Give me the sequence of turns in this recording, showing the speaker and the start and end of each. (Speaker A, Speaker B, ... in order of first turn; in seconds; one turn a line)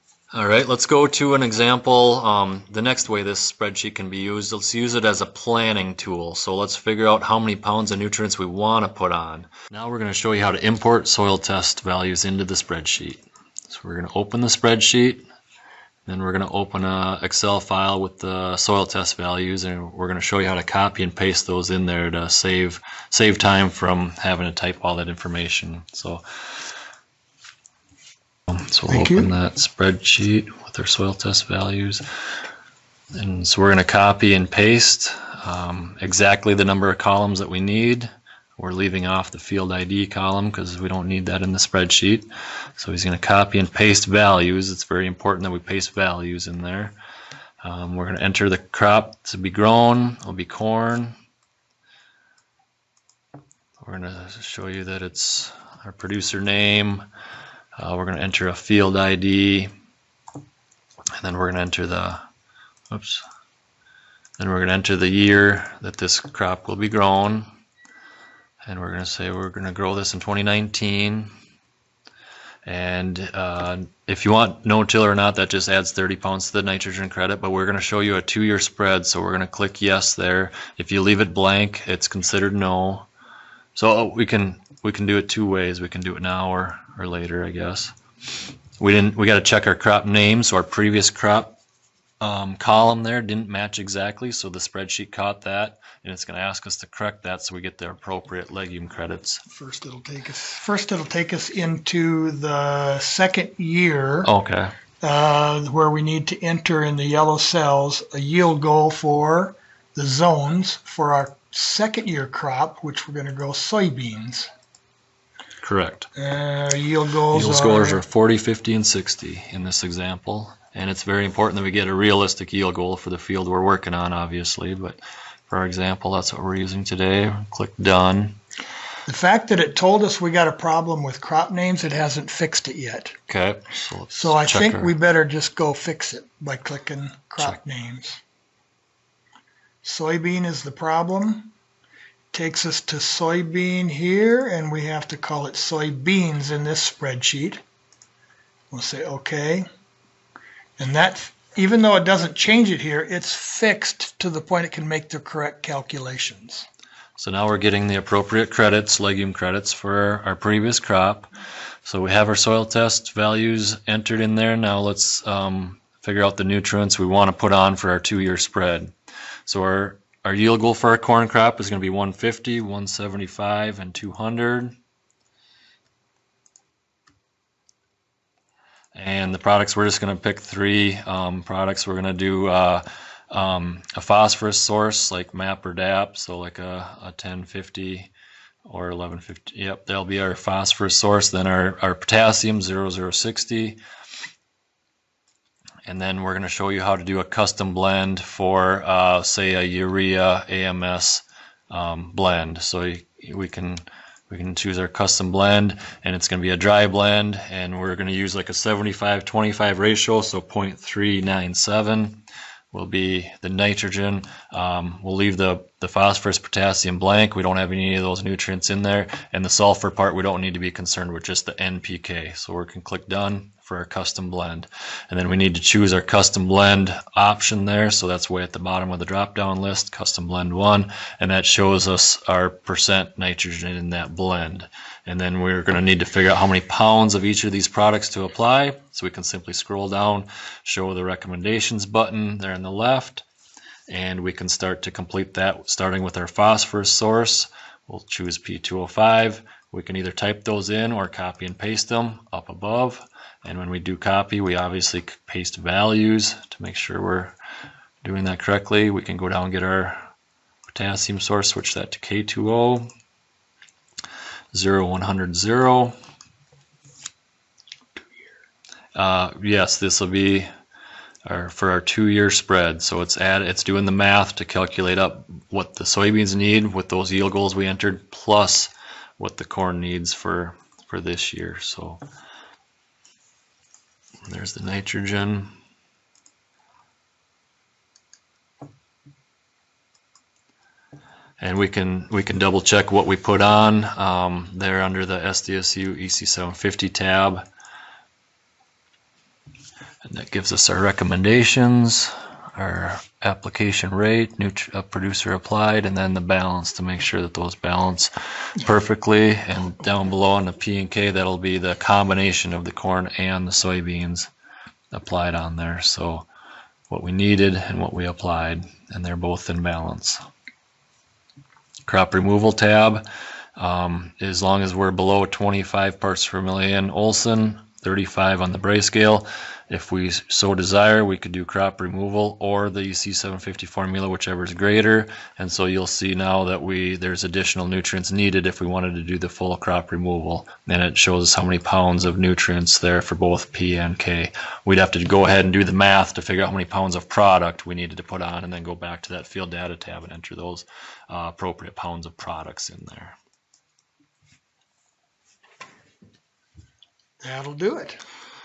Speaker A: 0.3-15.2
Speaker A: 16.1-26.2
Speaker A: 28.5-32.0
Speaker B: 28.9-29.3
Speaker A: 33.1-47.0
Speaker A: 47.6-51.2
Speaker A: 53.8-57.0
Speaker A: 57.8-59.7
Speaker A: 61.2-62.2
Speaker A: 62.9-63.2
Speaker A: 64.4-67.5
Speaker A: 68.7-71.3
Speaker A: 72.7-83.1
Speaker A: 83.8-87.9
Speaker A: 88.8-91.6
Speaker A: 92.2-99.4
Speaker B: 99.5-104.3
Speaker A: 104.2-104.8
Speaker B: 105.0-114.5
Speaker A: 115.6-116.1
Speaker B: 116.2-118.0
Speaker A: 117.3-128.4
Speaker B: 129.1-133.2
Speaker A: 133.3-134.9
Speaker B: 134.1-138.2
Speaker B: 139.8-141.5
Speaker B: 142.3-147.6
Speaker B: 148.7-149.7
Speaker B: 150.8-156.7
Speaker A: 157.2-161.3
Speaker A: 161.8-168.9
Speaker A: 169.5-174.8
Speaker A: 178.9-188.1
Speaker A: 188.7-193.8
Speaker A: 195.9-243.3
Speaker A: 243.9-257.4
Speaker A: 258.0-260.1
Speaker A: 260.7-262.9
Speaker A: 264.5-266.0
Speaker A: 268.9-270.5
Speaker A: 271.3-282.0
Speaker A: 284.3-285.5
Speaker A: 291.4-297.4
Speaker A: 300.1-314.3
Speaker A: 314.9-316.3
Speaker A: 316.9-320.2
Speaker A: 321.9-323.0
Speaker A: 323.6-353.2
Speaker B: 357.2-358.0